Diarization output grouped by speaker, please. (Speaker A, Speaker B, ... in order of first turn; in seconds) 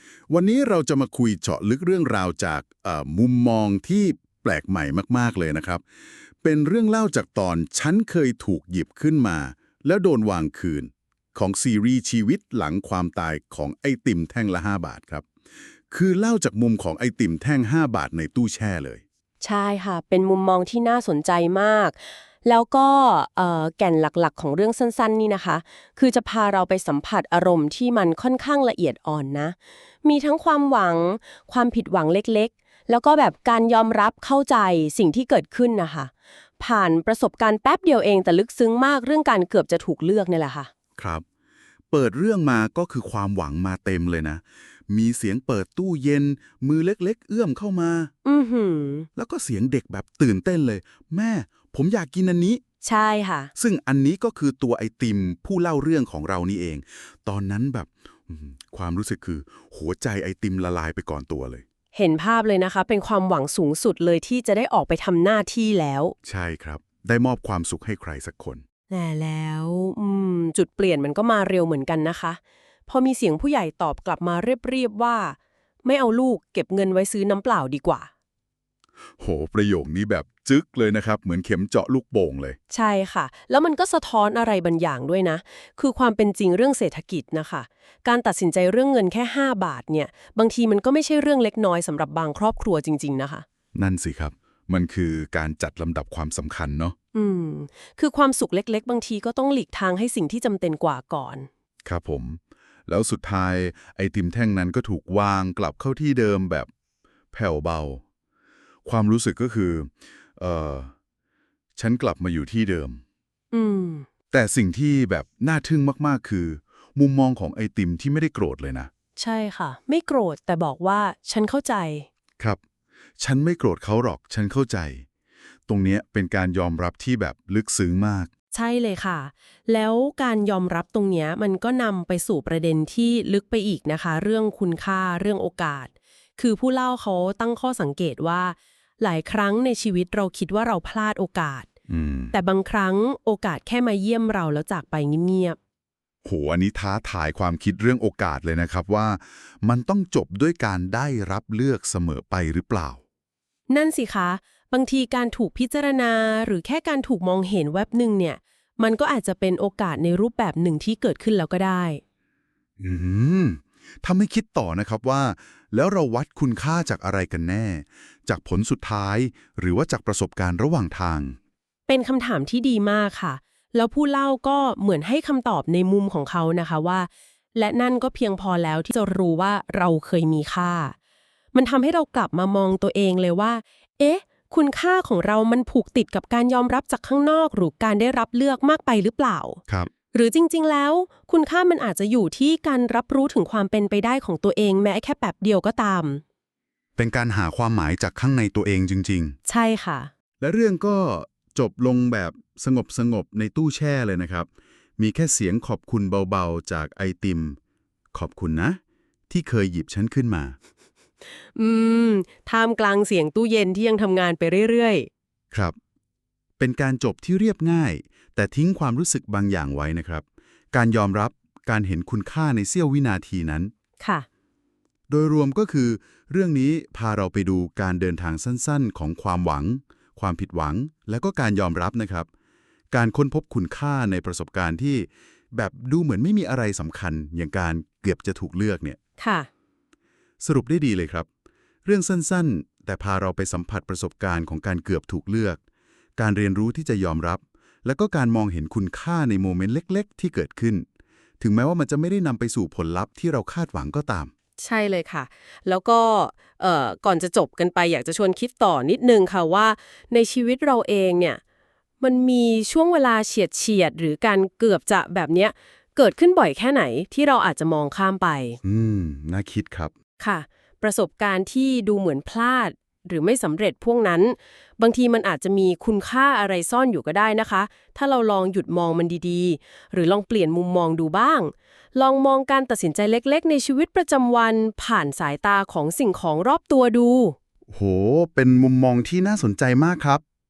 Speaker A: 0.3-5.8, 6.4-15.3, 15.9-19.0, 41.0-41.2, 41.9-48.1, 49.2-52.6, 53.6-61.6, 66.2-68.6, 79.2-82.6, 93.8-97.0, 101.8-106.7, 107.3-108.0, 108.8-110.9, 111.8-113.0, 114.3-118.9, 123.2-125.0, 125.7-128.3, 141.9-142.3, 146.2-153.0, 162.8-171.4, 197.0-199.4, 200.4-207.6, 208.1-210.6, 216.6-223.7, 225.1-232.3, 232.9-239.0, 240.4-241.3, 241.8-245.6, 246.2-250.9, 251.4-254.3, 268.6-269.9, 287.7-290.2
Speaker B: 19.4-40.7, 48.2-49.1, 52.8-53.5, 61.9-66.2, 68.9-78.1, 82.7-93.5, 97.1-101.5, 113.5-114.1, 119.2-122.1, 128.5-141.7, 142.3-145.6, 153.7-162.0, 171.9-180.9, 181.5-189.6, 190.1-196.2, 199.5-200.1, 211.6-215.1, 224.0-224.3, 239.2-239.5, 254.6-261.4, 262.0-268.6, 270.2-287.4